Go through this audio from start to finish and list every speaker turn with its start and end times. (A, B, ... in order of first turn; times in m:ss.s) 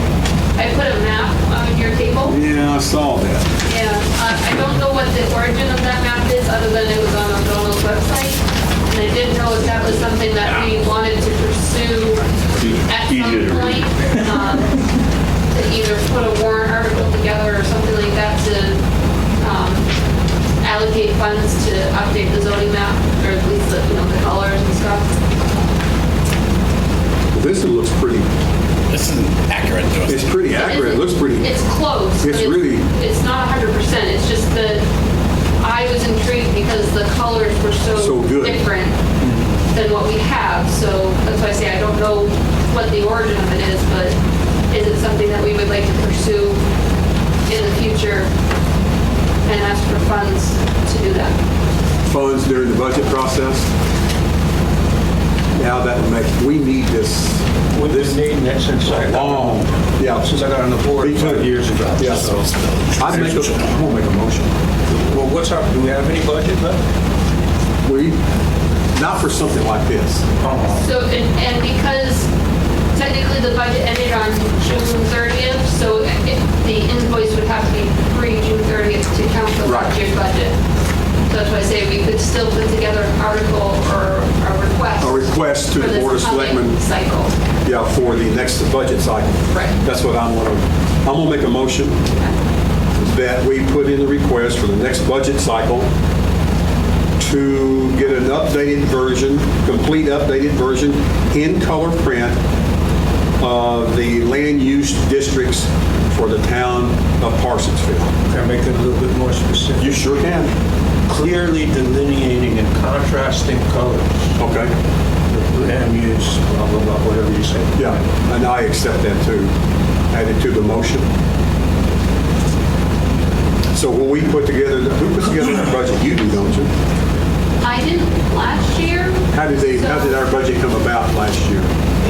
0:00.6-0:02.4 A
0:02.2-0:03.5 B
0:03.6-0:14.8 A
0:10.3-0:10.8 C
0:12.6-0:14.6 C
0:15.5-0:18.8 A
0:19.4-0:19.8 A
0:20.6-0:25.6 A
0:27.3-0:28.2 B
0:28.9-0:30.4 C
0:30.0-0:31.5 B
0:30.5-0:34.8 A
0:32.2-0:32.8 B
0:35.6-0:39.0 A
0:38.0-0:38.6 B
0:39.2-0:39.5 D
0:39.7-0:44.2 A
0:44.7-0:46.6 A
0:47.5-0:48.3 A
0:49.4-0:51.3 A
0:52.1-0:53.7 B
0:55.6-0:58.2 B
0:57.7-0:59.6 D
0:58.9-1:02.4 B
1:00.1-1:02.0 D
1:02.0-1:03.5 C
1:02.9-1:04.5 B
1:04.9-1:06.8 D
1:07.8-1:08.2 B
1:08.9-1:10.2 B
1:10.4-1:10.8 D
1:10.8-1:12.3 A
1:12.9-1:20.6 A
1:19.6-1:19.9 B
1:21.3-1:27.3 A
1:25.0-1:26.8 B
1:27.6-1:32.0 B
1:29.5-1:29.8 A
1:33.0-1:35.9 B
1:37.2-1:42.4 B
1:43.4-1:48.1 B
1:48.3-1:50.0 D
1:49.8-1:50.5 B
1:51.1-1:54.2 D
1:54.4-1:54.7 B
1:55.3-1:57.8 D
1:57.8-1:59.5 B
2:00.1-2:01.0 B
2:03.7-2:06.7 B
2:07.6-2:10.2 A
2:09.3-2:11.7 B